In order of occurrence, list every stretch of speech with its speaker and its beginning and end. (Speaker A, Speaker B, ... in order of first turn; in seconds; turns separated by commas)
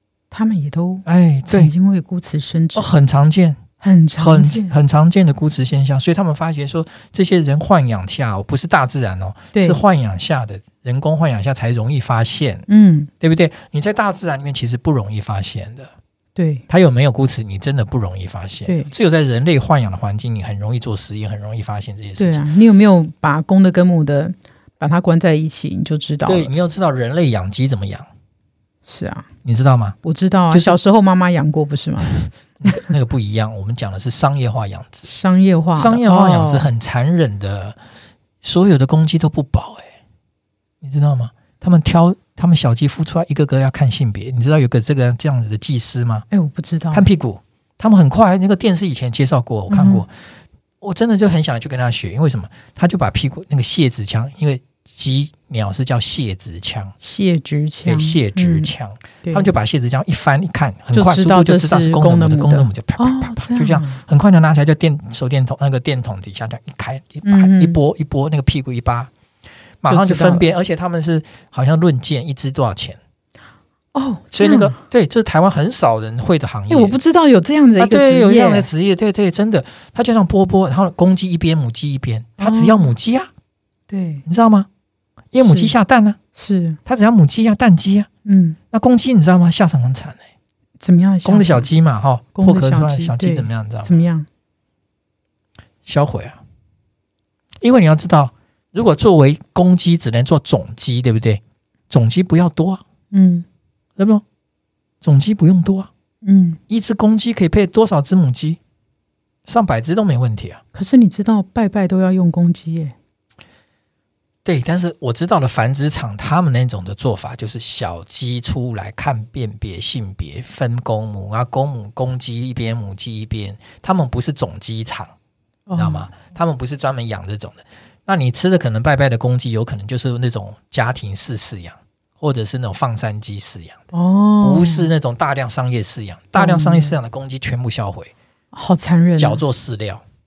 Speaker A: 0.3-2.9, Speaker B: 1.0-1.7, Speaker B: 2.7-3.6, Speaker A: 3.8-4.7, Speaker B: 4.2-12.7, Speaker A: 9.5-9.8, Speaker A: 12.7-13.1, Speaker B: 13.2-15.9, Speaker A: 16.4-16.6, Speaker B: 16.7-22.5, Speaker A: 18.6-18.9, Speaker A: 22.2-26.5, Speaker B: 26.2-28.1, Speaker A: 28.9-29.3, Speaker B: 29.4-29.9, Speaker A: 30.0-32.8, Speaker B: 30.5-30.8, Speaker B: 32.1-35.1, Speaker A: 35.0-36.7, Speaker B: 35.7-37.8, Speaker B: 38.4-39.9, Speaker B: 40.8-46.3, Speaker A: 46.3-47.1, Speaker B: 46.9-50.1, Speaker A: 49.7-50.0, Speaker B: 50.8-56.9, Speaker A: 57.0-58.7, Speaker B: 57.9-69.1, Speaker A: 59.2-59.5, Speaker A: 60.9-64.0, Speaker A: 67.2-67.8, Speaker B: 69.8-73.0, Speaker A: 69.8-70.5, Speaker A: 73.9-74.8, Speaker B: 74.3-77.0, Speaker A: 76.7-78.7, Speaker B: 77.8-83.3, Speaker A: 82.4-82.9, Speaker A: 83.9-84.2, Speaker B: 84.2-84.7, Speaker B: 85.3-86.2, Speaker A: 85.4-85.7, Speaker A: 86.3-86.8, Speaker B: 86.8-88.1, Speaker A: 88.2-88.6, Speaker B: 88.7-90.2, Speaker A: 90.8-91.7, Speaker B: 91.2-94.1, Speaker A: 92.3-94.3, Speaker B: 95.8-96.4, Speaker B: 97.6-102.8, Speaker A: 103.1-103.4, Speaker B: 104.0-104.2, Speaker B: 105.0-105.9, Speaker A: 106.2-106.6, Speaker B: 106.7-108.6, Speaker B: 109.5-110.6, Speaker A: 110.7-112.9, Speaker B: 114.4-125.1, Speaker A: 125.7-126.1, Speaker B: 125.7-133.8, Speaker A: 133.9-134.9, Speaker B: 134.4-138.1, Speaker A: 136.3-137.0, Speaker A: 138.5-139.4, Speaker B: 139.2-140.0